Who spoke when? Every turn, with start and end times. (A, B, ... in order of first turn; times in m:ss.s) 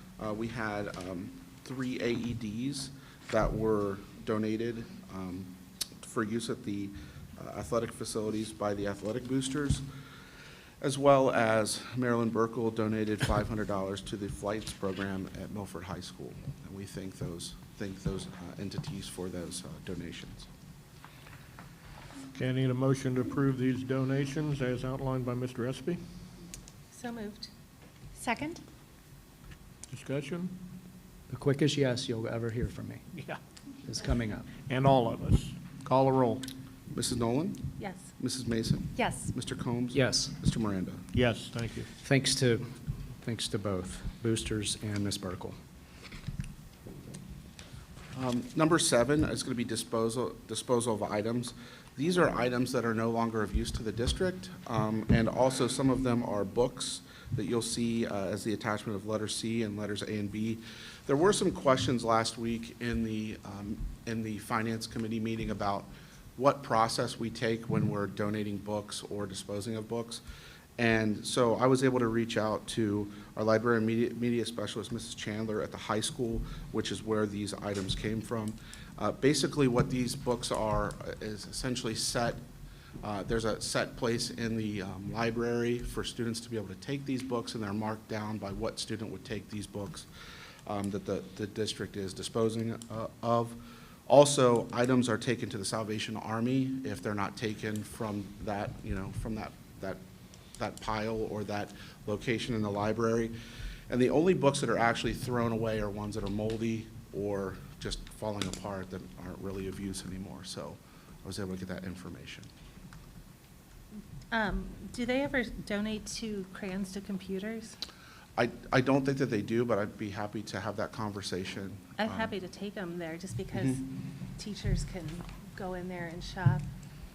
0:00.2-0:09.8 A
0:10.8-0:20.5 A
0:22.3-0:26.0 B
0:26.9-0:27.5 C
0:28.2-0:28.6 C
0:29.9-0:30.5 B
0:31.3-0:33.0 D
0:33.8-0:34.5 D
0:34.7-0:36.4 B
0:36.9-0:41.0 A
0:37.8-0:38.0 C
0:39.0-0:39.3 C
0:39.9-0:40.3 D
0:41.1-0:41.9 B
0:42.0-0:42.6 D
0:43.2-0:45.6 D
0:48.1-1:10.2 A
1:10.8-1:22.4 A
1:23.0-1:30.1 A
1:30.6-1:40.0 A
1:40.6-1:43.3 A
1:43.9-1:52.5 A
1:54.3-1:57.8 C
1:58.4-2:02.3 A
2:02.0-2:06.6 C
2:03.5-2:03.8 A